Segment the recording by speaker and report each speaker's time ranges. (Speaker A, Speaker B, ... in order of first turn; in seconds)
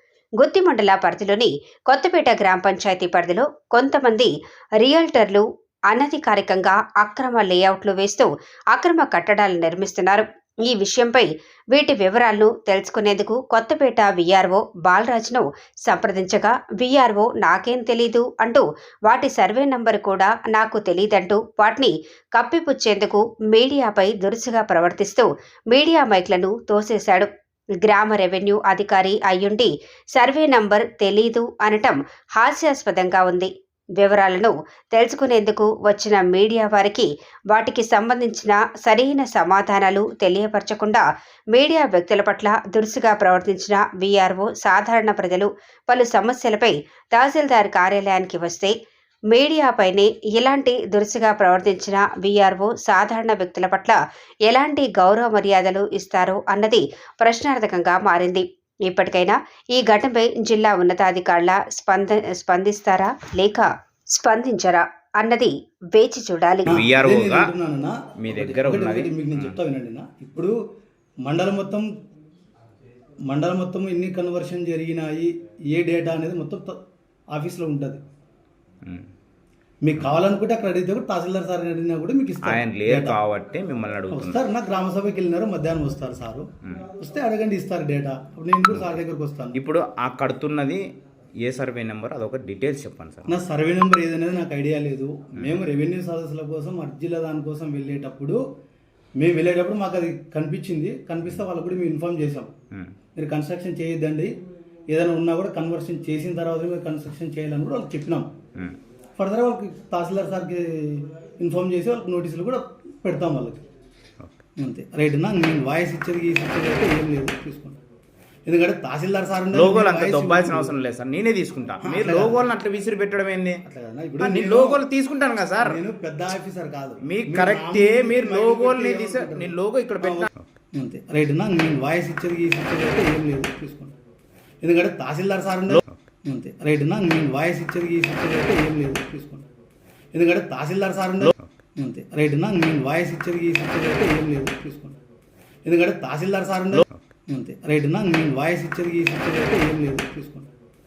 Speaker A: 0.4-27.3, 27.8-41.0, 41.5-48.7, 49.3-66.7
Speaker B: 66.7-67.5, 68.2-69.6, 82.4-84.4, 88.7-89.0, 89.5-90.8, 91.4-93.3, 119.5-123.6, 124.2-125.8, 127.0-130.4, 135.7-135.9
Speaker C: 66.7-70.6, 71.2-71.9, 73.3-76.8, 77.3-78.0, 79.8-83.2, 84.1-89.6, 93.3-98.4, 99.2-102.5, 103.2-104.3, 104.9-108.3, 109.2-113.6, 114.6-117.8, 118.5-120.7, 121.8-122.4, 123.6-124.8, 125.6-133.9, 134.6-139.4, 140.1-145.0, 145.6-150.5